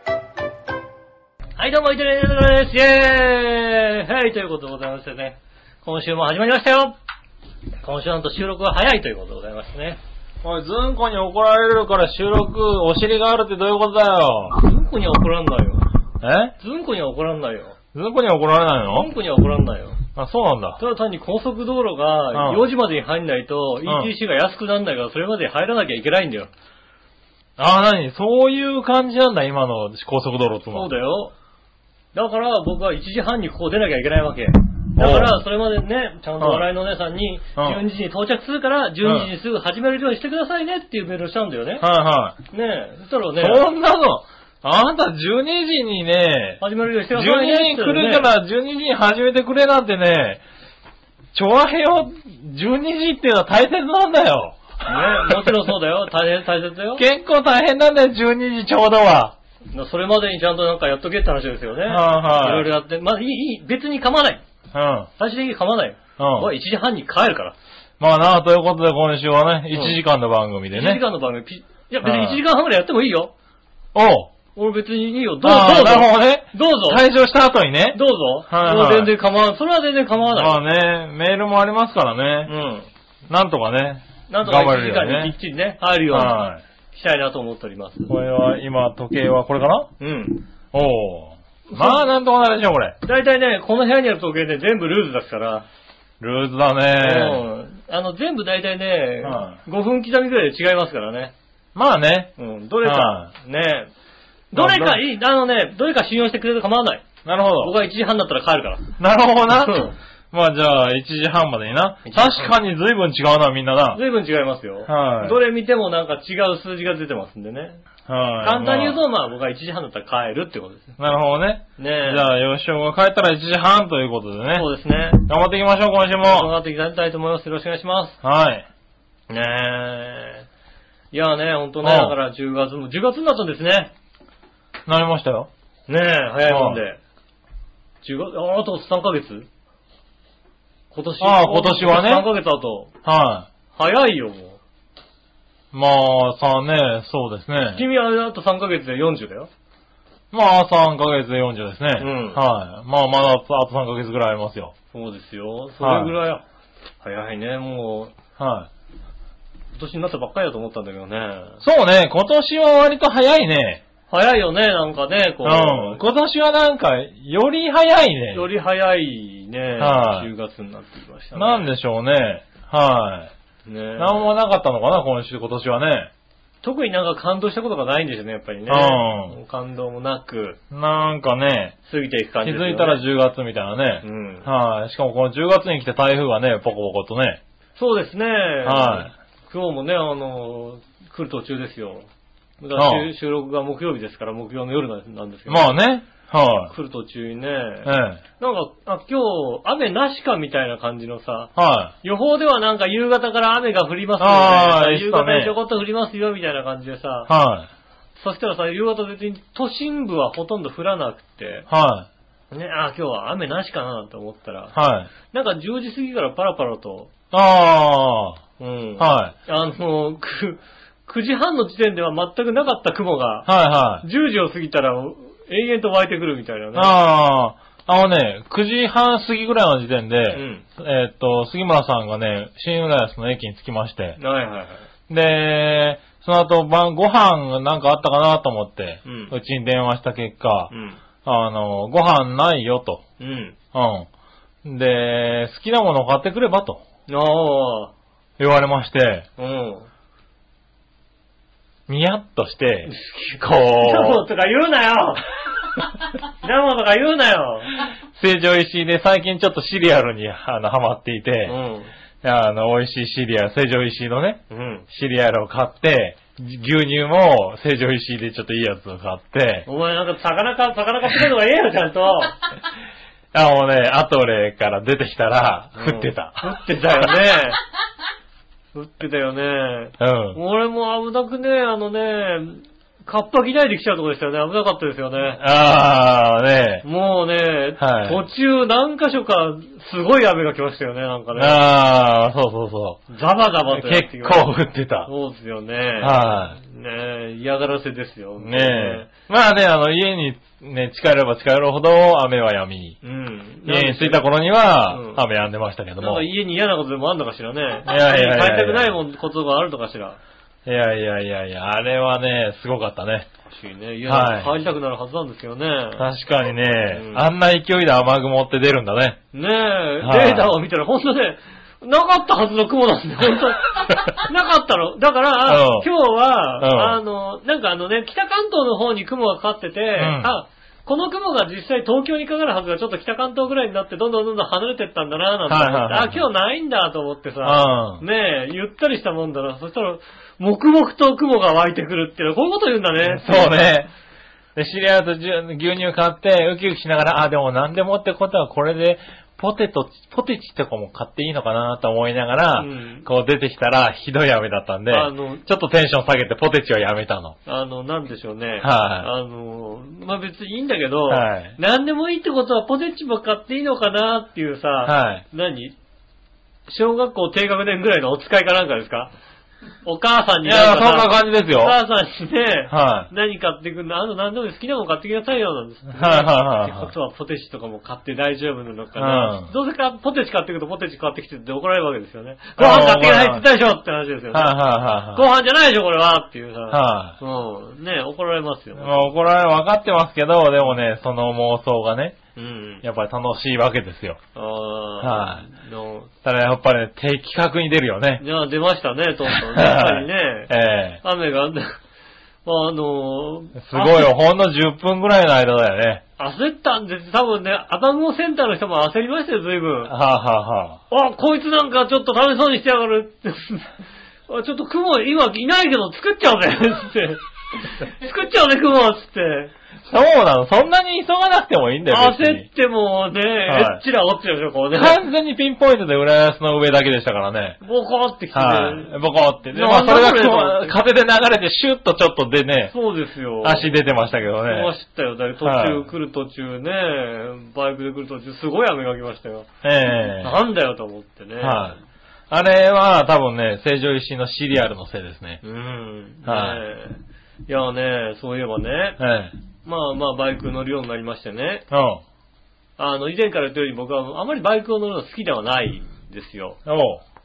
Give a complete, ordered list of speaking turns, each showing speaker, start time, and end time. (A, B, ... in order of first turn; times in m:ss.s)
0:01.6-0:07.0 A
0:07.8-0:10.0 A
0:10.4-0:14.6 B
0:14.6-0:15.8 A
0:16.2-0:16.5 B
0:16.6-0:17.8 A
0:17.9-0:19.1 B
0:18.8-0:20.0 A
0:20.1-0:20.8 B
0:20.8-0:26.5 A
0:22.3-0:22.7 B
0:23.8-0:24.1 B
0:27.6-0:30.9 B
0:30.7-0:31.3 A
0:32.1-0:41.8 A
0:35.0-0:35.4 B
0:36.4-0:36.7 B
0:39.0-0:39.3 B
0:41.8-0:42.4 B
0:42.5-0:43.6 A
0:43.4-0:50.4 B
0:46.6-0:48.3 A
0:51.3-0:55.6 B
0:54.8-0:57.0 A
0:57.0-0:59.3 B
0:59.7-1:04.4 A
1:01.9-1:02.7 B
1:04.7-1:05.1 B
1:05.2-1:07.5 A
1:06.2-1:06.5 B
1:08.0-1:11.0 B
1:09.7-1:10.0 A
1:10.7-1:13.3 A
1:12.0-1:12.4 B
1:13.9-1:14.3 B
1:14.5-1:17.0 A
1:15.4-1:19.1 B
1:17.9-1:20.6 A
1:20.3-1:22.5 B
1:22.5-1:22.9 A
1:23.3-1:25.3 B
1:24.3-1:26.4 A
1:26.1-1:26.6 B
1:26.9-1:28.1 A
1:28.1-1:29.9 B
1:30.0-1:30.4 A
1:30.7-1:33.0 B
1:31.7-1:32.0 A
1:33.0-1:35.6 A
1:36.2-1:37.4 B
1:37.0-1:41.3 A
1:39.2-1:39.6 B
1:41.7-1:42.3 B
1:42.4-1:43.9 A
1:42.8-1:43.3 B
1:44.5-1:47.0 A
1:44.5-1:45.0 B
1:47.2-1:47.7 B
1:47.6-1:48.9 A
1:49.0-1:54.0 B
1:49.5-1:49.9 A
1:52.0-1:52.5 A
1:53.9-1:57.8 A
1:54.9-1:55.4 B
1:58.1-1:59.0 B
1:58.4-2:00.9 A
2:01.0-2:04.7 B
2:01.8-2:02.3 A
2:04.5-2:05.2 A
2:05.2-2:06.5 B
2:06.2-2:08.2 A
2:08.2-2:08.6 B
2:09.3-2:10.4 A
2:11.1-2:13.9 A
2:11.8-2:12.1 B
2:14.8-2:15.5 B
2:15.9-2:17.0 A
2:16.5-2:16.8 B
2:18.0-2:19.5 A
2:20.9-2:22.9 A
2:21.2-2:22.3 B
2:23.0-2:23.5 B
2:23.7-2:24.6 A
2:25.7-2:27.8 B
2:27.7-2:29.5 A
2:30.3-2:34.7 B
2:32.0-2:32.4 A
2:34.9-2:36.4 A
2:35.8-2:36.1 B
2:37.0-2:38.1 A
2:38.4-2:38.7 B
2:39.7-2:41.6 A
2:41.6-2:43.8 B
2:44.1-2:46.0 A
2:45.4-2:48.5 B
2:48.3-2:51.7 A
2:49.8-2:50.3 B
2:51.3-2:53.3 B
2:53.6-2:54.3 A
2:54.0-2:56.1 B
2:56.6-3:00.6 A
2:58.7-2:59.3 B
3:00.7-3:01.7 B
3:01.8-3:03.0 A
3:02.4-3:07.4 B
3:04.0-3:04.5 A
3:07.8-3:12.1 A
3:08.6-3:09.1 B
3:12.6-3:15.8 A
3:12.8-3:13.1 B
3:15.5-3:16.7 B
3:16.7-3:27.3 A
3:17.8-3:18.2 B
3:21.6-3:21.9 B
3:24.2-3:25.5 B
3:27.3-3:27.7 B
3:28.2-3:31.7 A
3:31.7-3:32.1 B
3:32.5-3:34.7 A
3:34.7-3:35.1 B
3:35.3-3:37.1 A
3:37.3-3:38.4 B
3:38.6-3:43.5 A
3:39.0-3:39.3 B
3:43.4-3:44.0 B
3:44.0-3:47.0 A
3:46.7-3:54.2 B
3:50.3-3:50.6 A
3:54.2-3:54.8 A
3:55.1-4:00.7 B
3:59.0-3:59.3 A
4:00.7-4:01.0 A
4:01.2-4:03.0 B
4:03.2-4:03.6 A
4:03.7-4:04.1 B
4:04.6-4:06.8 B
4:07.1-4:07.9 A
4:08.4-4:09.2 B
4:09.4-4:09.9 A
4:11.9-4:14.2 B
4:12.9-4:15.2 A
4:16.4-4:17.7 A
4:18.1-4:21.6 B
4:21.4-4:21.9 A
4:22.2-4:29.7 B
4:24.5-4:24.8 A
4:29.7-4:32.4 A
4:33.3-4:36.5 B
4:35.7-4:37.6 A
4:38.7-4:45.4 A
4:40.0-4:40.4 B
4:45.3-4:46.8 B
4:46.8-4:51.6 A
4:47.8-4:48.2 B
4:51.3-4:53.0 B
4:53.1-4:54.5 A
4:53.7-4:55.1 B
4:55.0-4:59.1 A
4:56.0-4:56.6 B
4:58.4-5:03.0 B
5:03.0-5:04.2 A
5:03.6-5:06.2 B
5:04.9-5:05.2 A
5:06.0-5:10.2 A
5:07.8-5:09.0 B
5:10.6-5:13.3 B
5:13.5-5:16.0 A
5:14.0-5:14.5 B
5:16.0-5:19.2 B
5:16.9-5:17.2 A
5:19.3-5:43.6 A
5:20.0-5:20.5 B
5:25.4-5:25.9 B
5:26.6-5:27.0 B
5:30.0-5:30.3 B
5:35.5-5:36.2 B
5:37.4-5:38.0 B
5:43.0-5:43.9 B
5:44.6-5:57.4 B
5:52.6-5:53.0 A
5:54.9-5:55.4 A
5:57.4-6:05.7 A
5:58.6-5:59.1 B
6:01.1-6:01.5 B
6:04.8-6:05.2 B
6:06.7-6:09.1 A
6:09.8-6:29.1 A
6:10.4-6:11.8 B
6:12.7-6:13.1 B
6:15.9-6:16.9 B
6:19.0-6:19.5 B
6:22.6-6:23.4 B
6:24.3-6:25.2 B
6:26.7-6:27.2 B
6:28.8-6:32.2 B
6:32.4-6:32.8 A
6:32.8-6:34.2 B
6:34.3-6:36.1 A
6:35.0-6:35.4 B
6:36.2-6:38.2 B
6:38.2-6:40.5 A
6:39.3-6:41.0 B
6:41.0-6:41.8 A
6:42.4-6:44.1 A
6:43.6-6:46.0 B
6:46.2-6:49.9 A
6:49.9-6:50.8 B
6:50.9-6:53.7 A
6:54.3-6:59.5 A
6:59.8-7:02.4 B
7:01.9-7:05.0 A
7:03.5-7:03.8 B
7:04.7-7:07.6 B
7:07.6-7:08.9 A
7:08.3-7:12.7 B
7:09.5-7:10.8 A
7:12.7-7:13.8 A
7:13.4-7:14.7 B
7:14.4-7:19.5 A
7:15.4-7:15.8 B
7:19.6-7:20.4 B
7:20.0-7:21.8 A
7:21.4-7:21.8 B
7:22.3-7:25.4 B
7:25.4-7:29.0 A
7:26.2-7:26.6 B
7:29.0-7:29.3 B
7:29.6-7:31.6 A
7:31.7-7:32.0 B
7:32.8-7:36.6 A
7:36.6-7:37.0 B